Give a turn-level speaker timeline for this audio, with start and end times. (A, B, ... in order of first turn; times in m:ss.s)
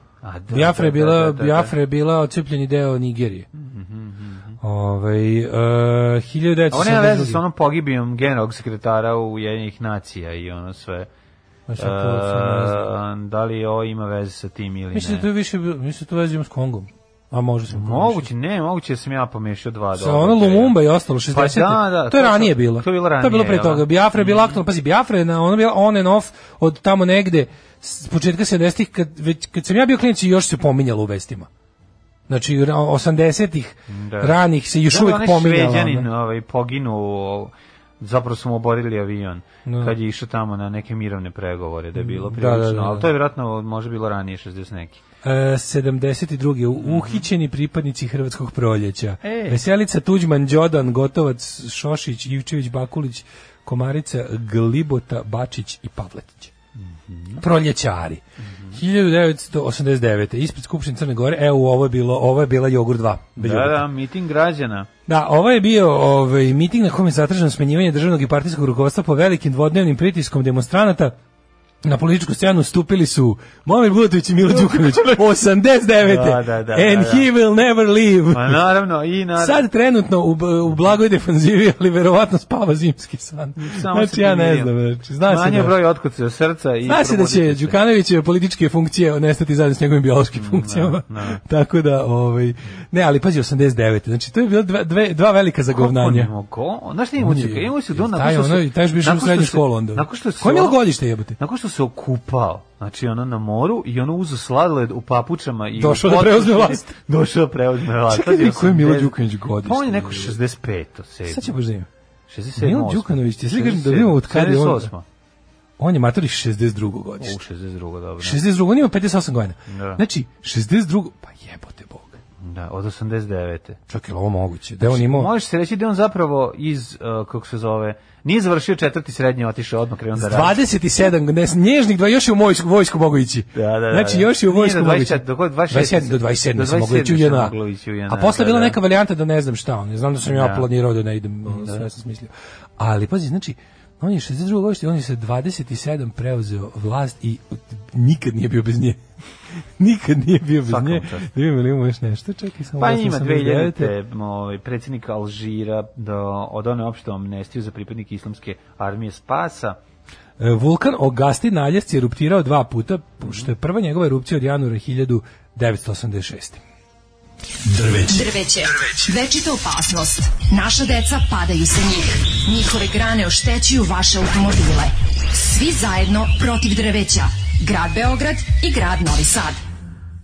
0:00.2-0:01.7 A
0:00.5-0:03.5 B
0:03.5-0:04.6 A
0:04.6-0:07.4 B
0:06.7-0:11.1 A
0:11.7-0:12.8 B
0:11.8-0:15.3 A
0:14.9-0:18.3 B
0:17.7-0:24.6 A
0:20.0-0:31.5 B
0:32.3-0:36.1 B
0:33.9-0:45.0 A
0:39.7-0:39.9 B
0:42.0-0:43.1 B
0:45.2-0:56.5 B
0:46.8-0:47.3 A
0:49.2-0:49.6 A
0:56.8-0:57.4 A
0:57.4-1:03.8 B
0:58.5-0:58.8 A
1:03.4-1:04.9 A
1:05.1-1:11.2 B
1:11.8-1:18.7 B
1:14.5-1:15.2 A
1:16.0-1:17.3 A
1:18.3-1:19.6 A
1:19.4-1:25.8 B
1:23.6-1:24.7 A
1:25.2-1:27.8 A
1:26.9-1:36.3 B
1:30.3-1:31.4 A
1:35.7-1:40.8 A
1:37.2-1:41.4 B
1:41.4-1:51.6 A
1:45.8-1:46.9 B
1:48.1-1:50.4 B
1:51.3-1:51.9 B
1:52.3-1:55.0 A
1:52.6-1:54.9 B
1:55.8-1:57.4 B
1:57.2-1:58.4 A
1:58.2-2:02.2 B
1:59.7-2:00.0 A
2:02.4-2:03.8 A
2:03.9-2:05.3 B
2:04.8-2:10.6 A
2:10.2-2:17.6 B
2:13.6-2:18.8 A
2:18.1-2:29.0 B
2:20.3-2:20.7 A
2:21.5-2:21.9 A
2:29.5-2:33.9 B
2:30.6-2:31.3 A
2:32.8-2:39.8 A
2:40.4-2:46.6 B
2:43.2-2:43.5 A
2:47.7-2:48.1 B
2:48.1-2:59.6 C